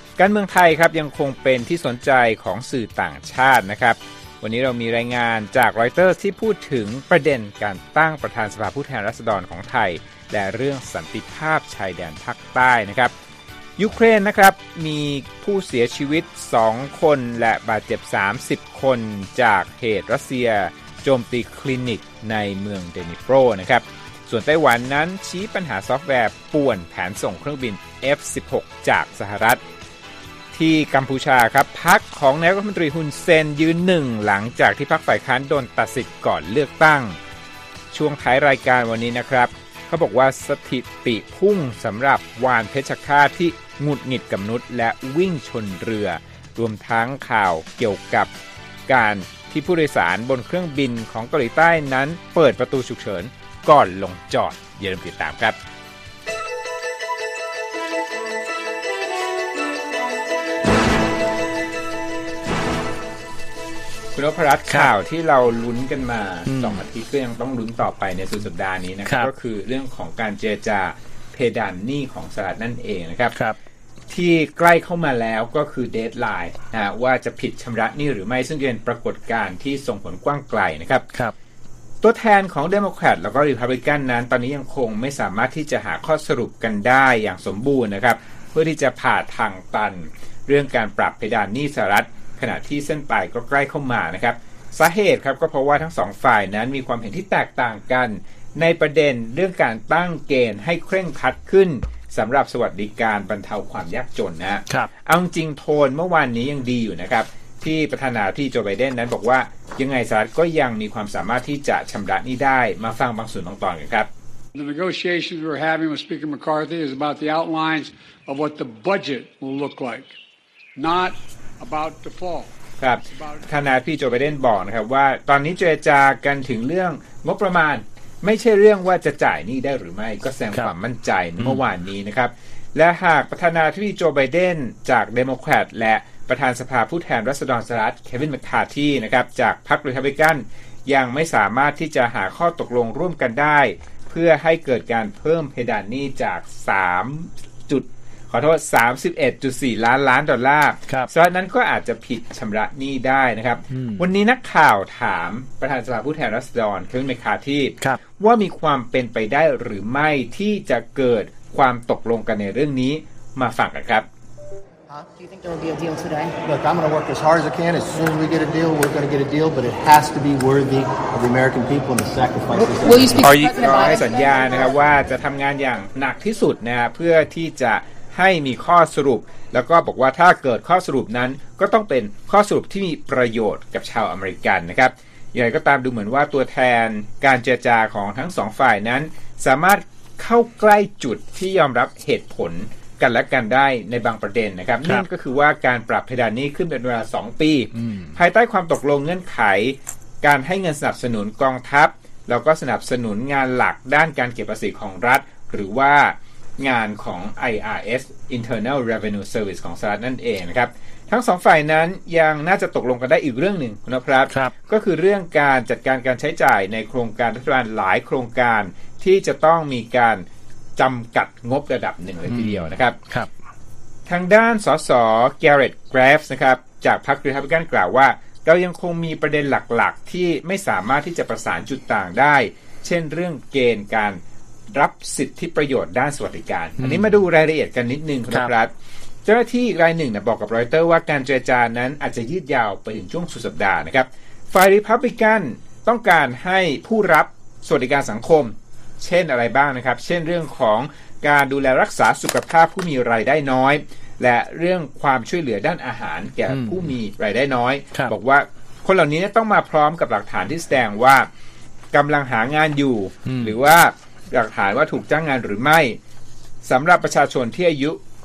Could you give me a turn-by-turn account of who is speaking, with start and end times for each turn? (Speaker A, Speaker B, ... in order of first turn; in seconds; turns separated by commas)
Speaker A: 0.2-13.1, Speaker A: 13.8-29.6, Speaker A: 30.5-37.2, Speaker A: 37.9-48.3, Speaker A: 48.9-55.6, Speaker A: 64.1-73.3, Speaker B: 66.5-66.8, Speaker B: 73.3-73.6, Speaker A: 74.1-81.0, Speaker A: 82.0-114.1, Speaker C: 114.5-120.2, Speaker C: 120.8-122.5, Speaker A: 122.8-164.1, Speaker C: 123.1-123.5, Speaker B: 153.7-154.1, Speaker D: 164.9-166.3, Speaker E: 166.4-173.3, Speaker D: 172.8-174.5, Speaker A: 173.2-220.2, Speaker B: 197.7-198.2, Speaker A: 220.8-223.0, Speaker B: 222.3-223.3, Speaker A: 224.1-234.2, Speaker A: 234.7-238.7, Speaker B: 236.8-237.1, Speaker A: 239.2-261.3, Speaker B: 256.5-256.9, Speaker A: 261.9-266.0, Speaker B: 263.2-263.5, Speaker A: 266.6-268.0